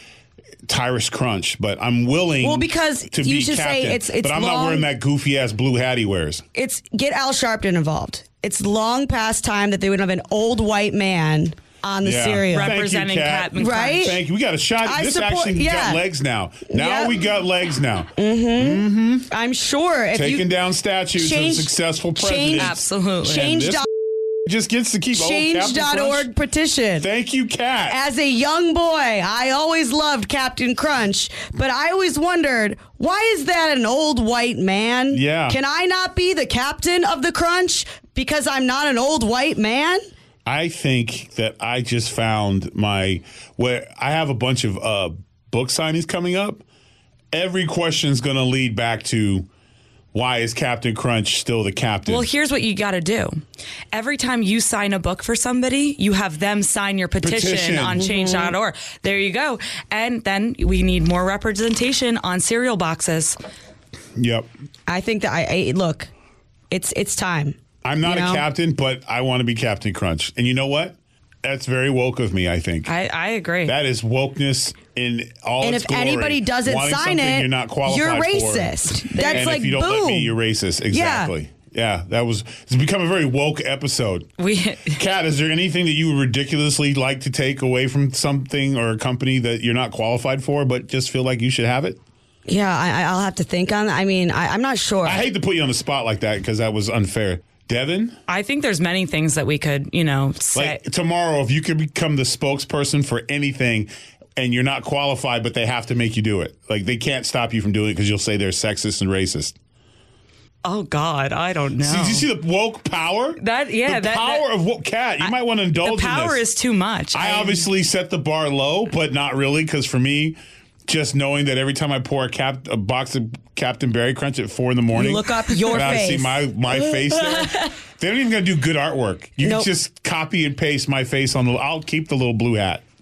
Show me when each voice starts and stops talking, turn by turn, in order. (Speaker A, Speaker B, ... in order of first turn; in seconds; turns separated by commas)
Speaker A: 0.7-6.4, Speaker B: 2.4-4.9, Speaker B: 6.5-12.7, Speaker A: 12.0-19.3, Speaker C: 12.5-14.2, Speaker B: 13.6-14.2, Speaker B: 14.8-16.0, Speaker B: 16.7-17.2, Speaker B: 18.2-20.4, Speaker A: 20.1-26.3, Speaker B: 21.1-23.9, Speaker C: 22.5-23.6, Speaker B: 25.1-27.1, Speaker A: 27.0-28.0, Speaker B: 27.9-40.0, Speaker A: 35.1-35.6, Speaker A: 40.5-46.6, Speaker A: 47.3-49.5, Speaker A: 50.1-52.3, Speaker C: 52.1-63.4, Speaker A: 57.2-58.1, Speaker B: 58.0-58.5, Speaker A: 64.2-64.5, Speaker B: 64.9-66.1, Speaker B: 66.7-68.4, Speaker A: 67.8-72.9, Speaker C: 72.8-73.8, Speaker A: 73.7-84.3, Speaker B: 75.6-80.3, Speaker C: 79.1-79.6, Speaker B: 80.9-81.3, Speaker C: 84.4-85.0, Speaker A: 84.9-92.0, Speaker B: 92.5-95.2, Speaker A: 95.0-98.2, Speaker C: 98.3-100.8, Speaker A: 100.5-109.5, Speaker C: 110.6-112.3, Speaker A: 111.8-116.4, Speaker C: 113.4-114.4, Speaker C: 115.2-117.7, Speaker A: 117.1-132.8, Speaker B: 124.9-127.7, Speaker B: 129.4-129.7